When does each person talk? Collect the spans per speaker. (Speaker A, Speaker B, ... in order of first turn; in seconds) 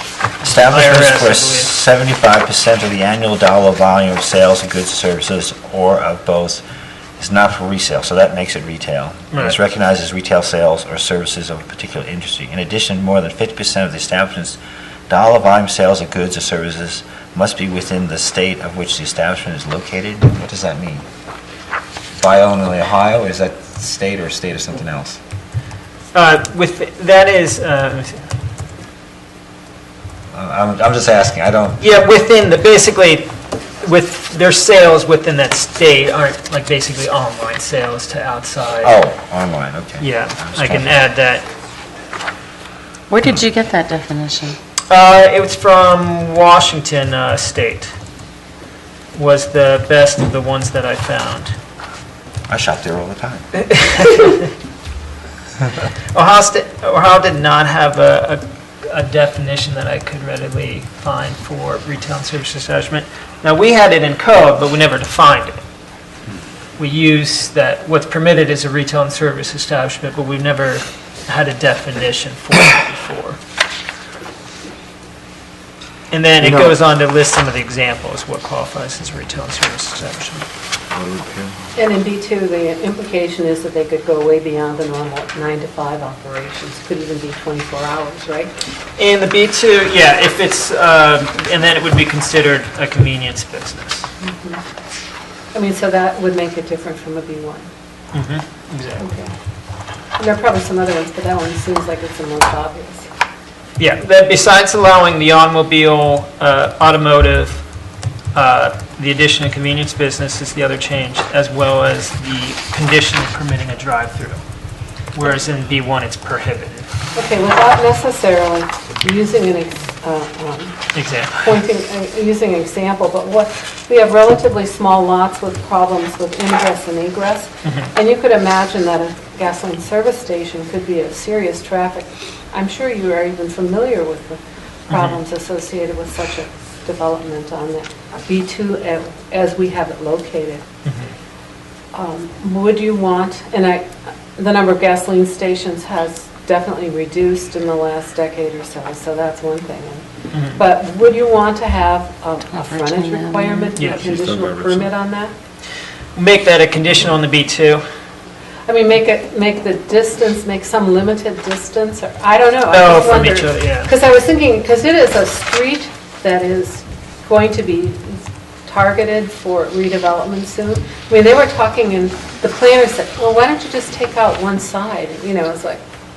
Speaker A: 0.4-1.7, 9.3-9.6, 26.1-28.3, 31.8-33.3, 33.8-39.0, 40.0-41.5, 44.9-47.9, 49.1-51.5, 53.7-54.5, 56.1-65.6, 66.8-73.4, 76.1-80.5, 89.0-94.1, 98.1-99.1, 103.8-107.6, 108.3-114.4, 115.2-116.9, 120.9-121.5, 127.7-127.9, 134.9-135.2, 140.9-141.1, 150.3-150.6, 153.8-154.1, 156.2-157.8, 162.7-163.9
Speaker B: 0.4-6.6, 7.2-14.6, 15.1-21.1, 22.1-25.2, 30.3-31.8, 38.8-40.9, 52.5-53.5, 76.4-76.7, 80.9-81.6, 153.9-154.9
Speaker C: 43.1-44.6, 152.5-153.8
Speaker D: 81.8-88.6, 94.2-94.6, 95.5-97.7, 99.0-99.3, 100.2-103.1, 117.2-120.8, 121.4-140.6, 141.9-155.3, 158.7-175.8